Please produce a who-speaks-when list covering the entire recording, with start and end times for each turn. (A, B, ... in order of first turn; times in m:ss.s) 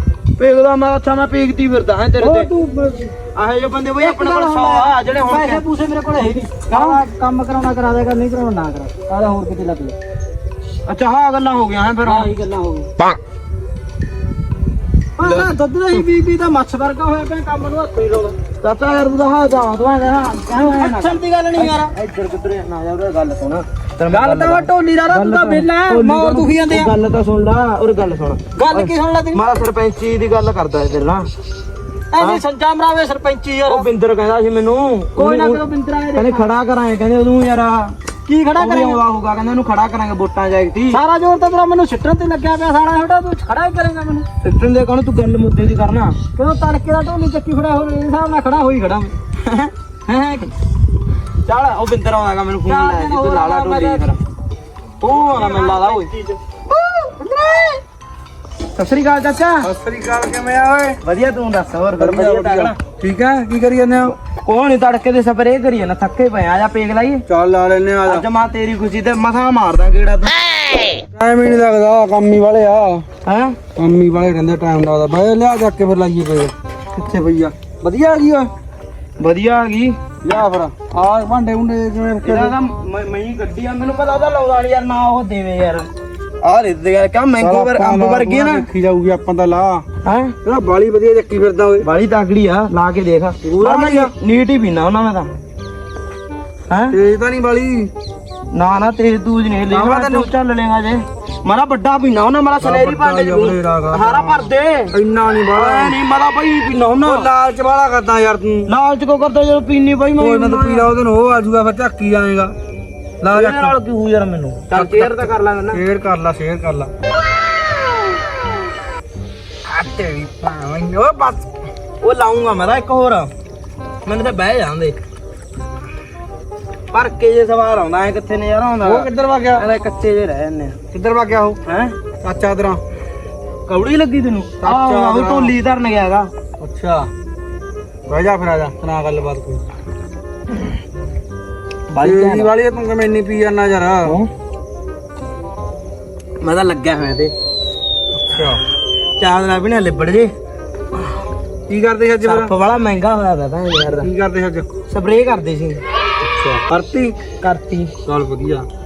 0:00.4-0:02.5 A
0:02.2-0:03.1 B
0:03.3-0:05.6 A
0:04.0-0:10.0 B
0:06.7-0:07.0 A
0:10.8-0:12.3 A
0:12.0-0:12.9 B
0:15.2-0:18.4 B
0:15.2-0:16.0 A
0:18.6-0:31.3 A
0:20.6-0:21.9 B
0:24.1-0:26.9 B
0:28.5-0:29.4 B
0:32.1-0:33.9 B
0:33.7-0:35.6 A
0:35.2-0:36.4 B
0:36.1-0:38.0 A
0:38.3-0:39.0 B
0:38.6-0:41.0 A
0:40.9-0:44.2 B
0:44.4-0:46.2 A
0:46.4-0:49.1 B
0:49.4-0:49.7 A
0:50.1-0:50.5 B
0:51.4-0:54.2 A
0:52.7-0:54.0 B
0:55.0-0:56.1 A
0:55.1-0:56.4 B
0:56.7-0:57.6 A
0:58.7-0:59.7 A
0:59.6-1:01.0 C
1:01.0-1:02.8 A
1:02.0-1:04.1 C
1:04.1-1:07.2 A
1:07.3-1:08.2 C
1:08.0-1:10.4 A
1:11.1-1:13.0 C
1:13.2-1:13.6 A
1:13.8-1:18.5 C
1:19.2-1:20.0 A
1:20.2-1:22.5 C
1:22.2-1:25.9 A
1:26.4-1:28.7 A
1:27.4-1:29.8 C
1:30.0-1:30.4 A
1:30.4-1:31.8 C
1:31.8-1:35.3 A
1:33.4-1:34.1 C
1:36.7-1:37.0 A
1:36.9-1:37.9 C
1:38.5-1:47.6 A
1:39.7-1:40.3 C
1:42.6-1:44.4 C
1:45.4-1:46.0 C
1:47.0-1:48.7 C
1:48.7-1:50.9 A
1:50.2-1:52.5 C
1:53.2-1:53.7 C
1:53.2-1:55.8 A
1:54.7-1:56.9 C
1:59.7-2:01.4 C
2:02.0-2:03.3 A
2:04.0-2:05.0 A
2:06.9-2:10.8 A
2:08.8-2:09.6 C
2:10.9-2:11.6 C
2:11.6-2:12.0 A
2:12.2-2:12.8 C
2:13.7-2:16.3 A
2:14.6-2:15.5 C
2:16.6-2:17.1 C
2:18.1-2:19.6 C
2:21.9-2:22.5 A
2:22.0-2:24.2 C
2:24.0-2:24.3 A
2:26.4-2:27.3 A
2:28.1-2:28.6 C
2:29.2-2:30.3 A
2:31.7-2:32.5 C
2:32.2-2:34.1 A
2:33.9-2:34.8 C
2:34.9-2:35.8 A
2:36.2-2:36.6 C
2:36.7-2:37.9 A
2:38.1-2:38.7 C